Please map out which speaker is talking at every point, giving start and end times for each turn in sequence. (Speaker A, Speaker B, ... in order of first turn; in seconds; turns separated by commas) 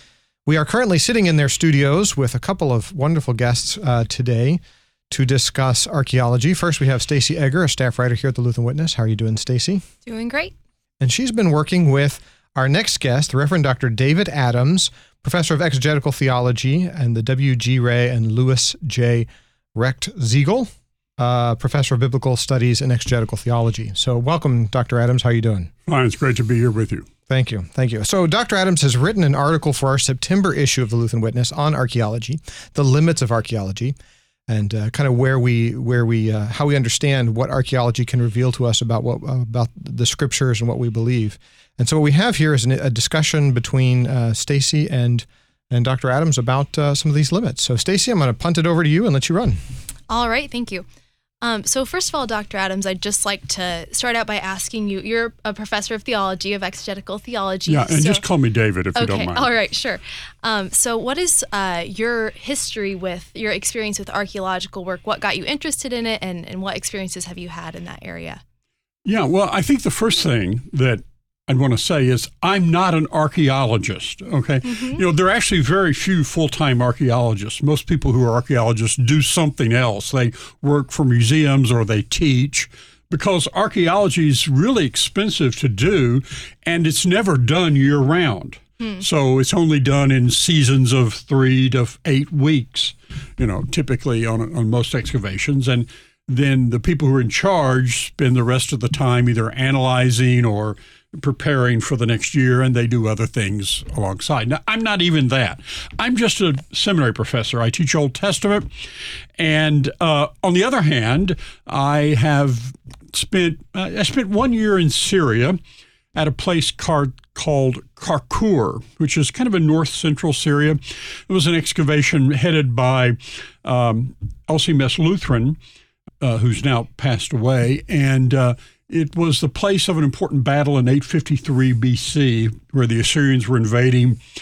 Speaker A: 0.5-9.8, Speaker B: 10.1-10.5, Speaker A: 11.0-25.7, Speaker C: 25.9-27.1, Speaker A: 27.3-34.0, Speaker A: 34.5-49.6, Speaker B: 50.1-50.9, Speaker B: 51.4-58.2, Speaker C: 57.7-59.5, Speaker B: 59.0-68.4, Speaker C: 69.0-108.7, Speaker C: 109.4-115.6, Speaker C: 116.1-125.6, Speaker C: 126.2-134.2